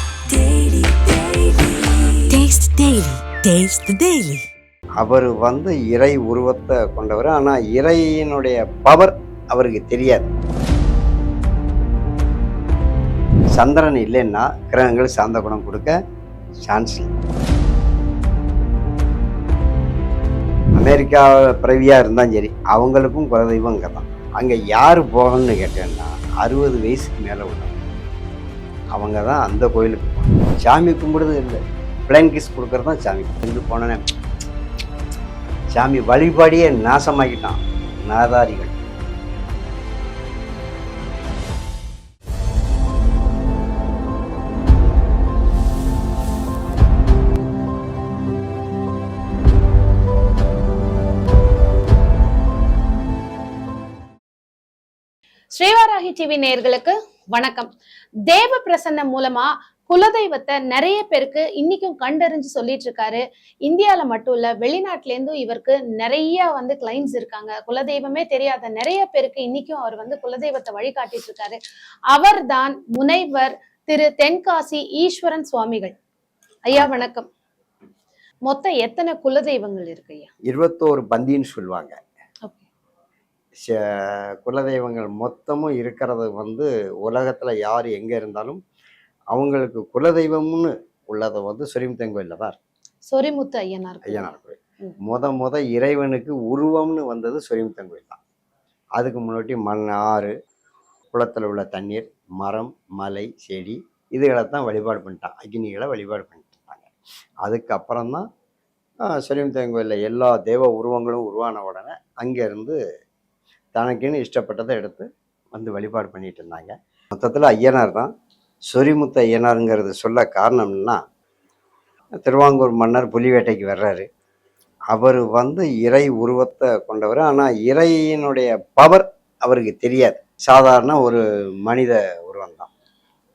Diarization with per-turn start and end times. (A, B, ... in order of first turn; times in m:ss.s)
0:00.2-0:04.5 A
0:05.0-0:10.3 B
0:13.5-0:16.0 B
0:16.6-0:17.1 B
0:20.7-0:27.8 B
0:28.9-0:34.0 B
0:35.7-0:38.7 B
0:55.5-0:57.7 C
0:58.3-1:11.6 C
1:12.1-1:15.9 C
1:16.6-1:17.3 C
1:18.5-1:20.3 C
1:20.5-1:22.0 B
1:23.6-1:28.6 B
1:29.3-1:32.6 B
1:33.1-1:34.9 C
1:34.0-1:38.2 B
1:39.0-1:40.3 B
1:41.1-1:46.9 B
1:47.4-1:48.2 B
1:49.0-1:52.8 B
1:53.7-1:58.1 B
1:58.7-2:01.0 B
2:02.2-2:04.1 B
2:04.9-2:12.7 B